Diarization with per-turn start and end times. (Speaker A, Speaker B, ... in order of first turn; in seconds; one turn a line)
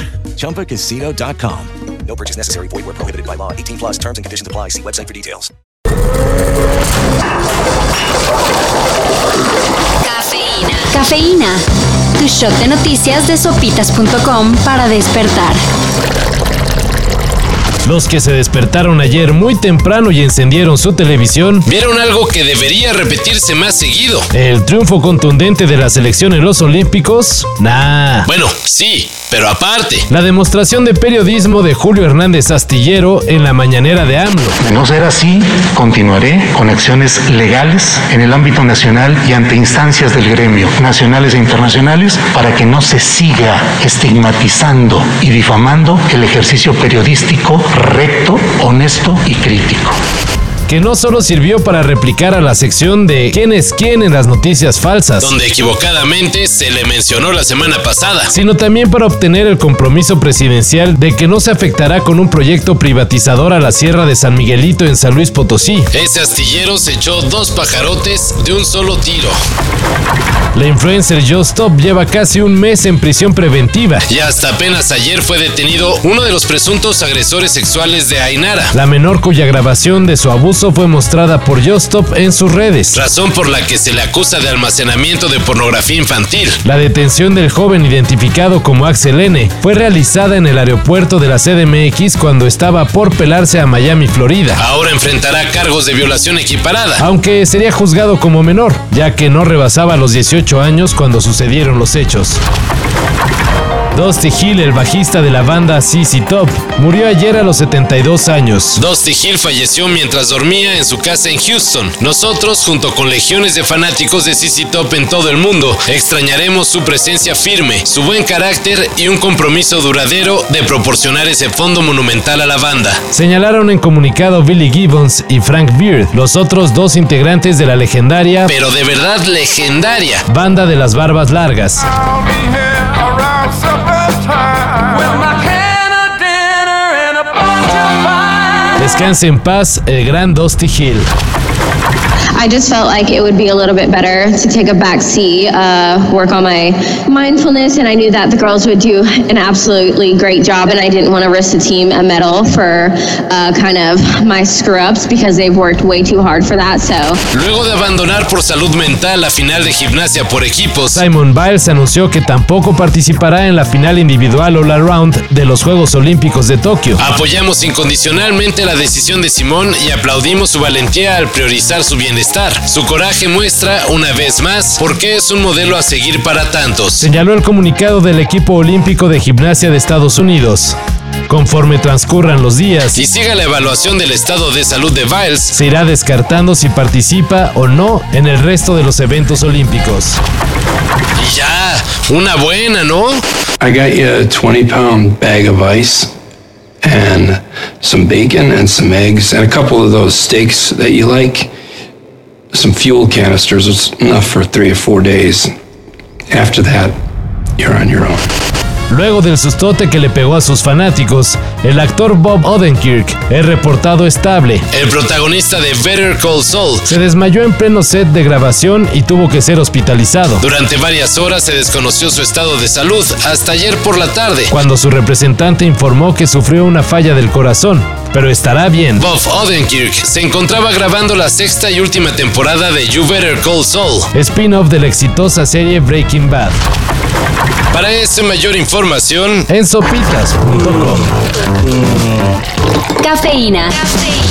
Speaker A: 0.3-5.5
Speaker B: 10.0-11.6
Speaker B: 12.2-15.6
Speaker C: 17.8-21.7
Speaker D: 21.7-24.3
Speaker C: 24.3-28.3
Speaker D: 28.3-30.0
Speaker C: 30.1-34.6
Speaker E: 34.6-50.0
Speaker C: 50.7-55.3
Speaker D: 55.2-58.3
Speaker C: 58.3-65.9
Speaker D: 65.9-69.3
Speaker C: 70.5-74.1
Speaker D: 74.1-78.7
Speaker C: 78.7-83.0
Speaker D: 82.9-86.6
Speaker C: 86.6-94.6
Speaker D: 94.6-97.0
Speaker C: 97.0-102.4
Speaker C: 103.9-108.8
Speaker D: 108.8-123.1
Speaker C: 123.1-128.5
Speaker D: 128.5-130.2
Speaker C: 130.2-131.8
Speaker C: 138.8-141.1
Speaker F: 142.3-157.2
Speaker D: 157.3-161.0
Speaker C: 161.0-167.0
Speaker D: 167.0-177.1
Speaker C: 177.0-180.8
Speaker C: 181.3-183.0
Speaker D: 182.9-185.6
Speaker C: 185.5-190.2
Speaker C: 191.2-193.2
Speaker G: 193.6-196.1
Speaker G: 196.8-201.5
Speaker G: 202.5-205.5
Speaker G: 206.3-206.9
Speaker G: 207.6-208.3
Speaker C: 208.9-214.7
Speaker D: 214.7-216.9
Speaker C: 216.9-220.4
Speaker D: 220.4-224.5
Speaker C: 224.5-229.1
Speaker D: 229.0-234.1
Speaker C: 234.1-236.6
Speaker D: 237.7-239.5
Speaker C: 239.5-241.1
Speaker B: 243.0-243.9